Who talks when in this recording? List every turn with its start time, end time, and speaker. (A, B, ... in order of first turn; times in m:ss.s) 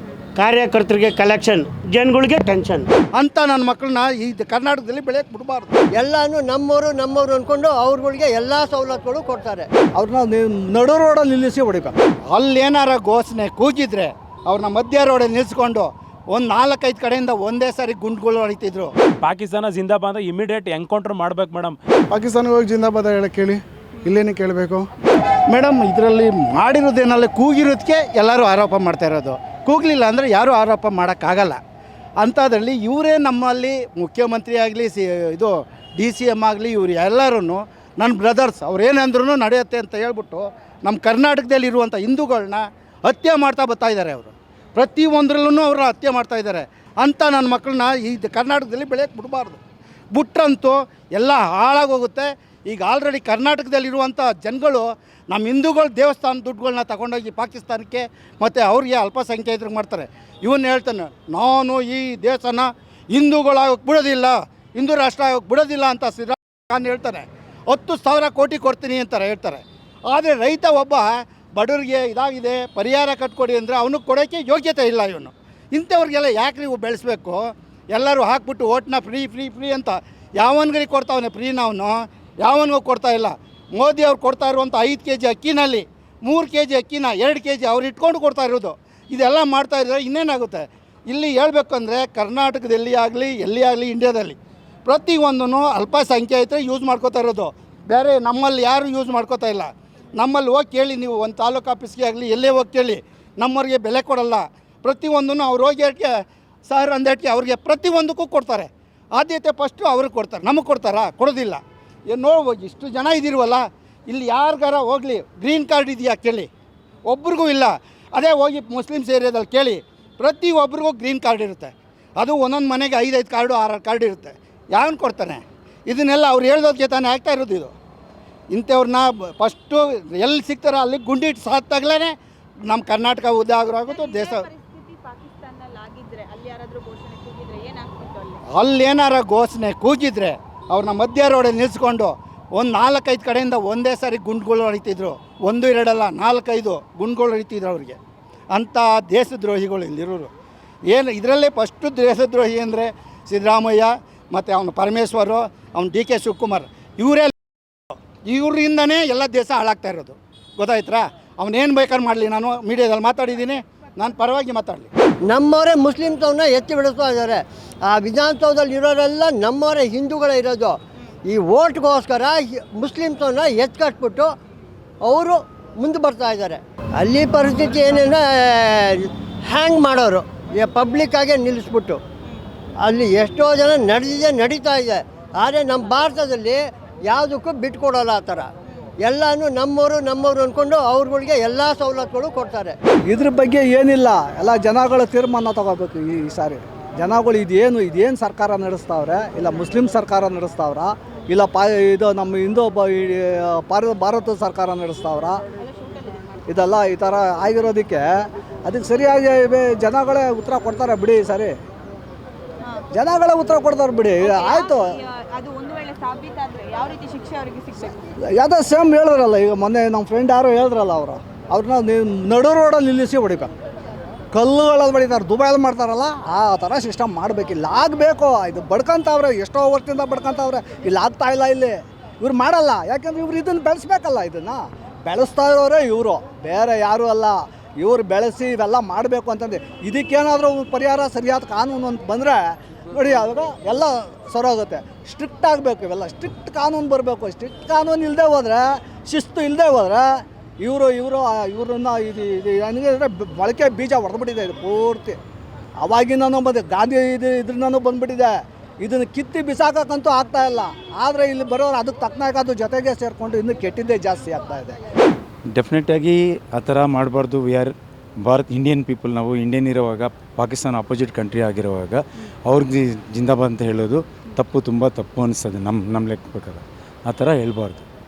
0:00.4-0:02.9 A
0:03.2-0:05.7 B
0:06.0-0:09.7 C
0:10.0-0:12.0 D
0:12.3-0:18.9 B
0:19.2-0:21.8 E
0:22.1-0:24.9 F
0:25.5-0:31.6 B
0:32.2-0:49.6 B
0:50.1-1:46.1 B
1:46.7-1:56.5 B
1:57.1-2:07.7 B
2:08.5-2:12.1 B
2:12.7-2:14.5 B
2:13.8-2:18.4 G
2:18.5-2:28.0 B
2:28.5-2:30.3 B
2:30.9-2:37.4 B
2:38.3-2:44.9 B
2:45.3-2:54.3 C
2:55.0-3:02.0 C
3:02.8-3:08.5 C
3:09.0-3:12.8 C
3:13.1-3:25.4 D
3:25.5-3:26.6 G
3:26.5-3:28.1 D
3:28.6-3:31.6 D
3:32.9-3:34.9 D
3:34.2-3:38.0 G
3:38.3-3:43.5 D
3:44.3-4:15.2 D
4:15.8-4:24.8 D
4:25.5-4:37.9 H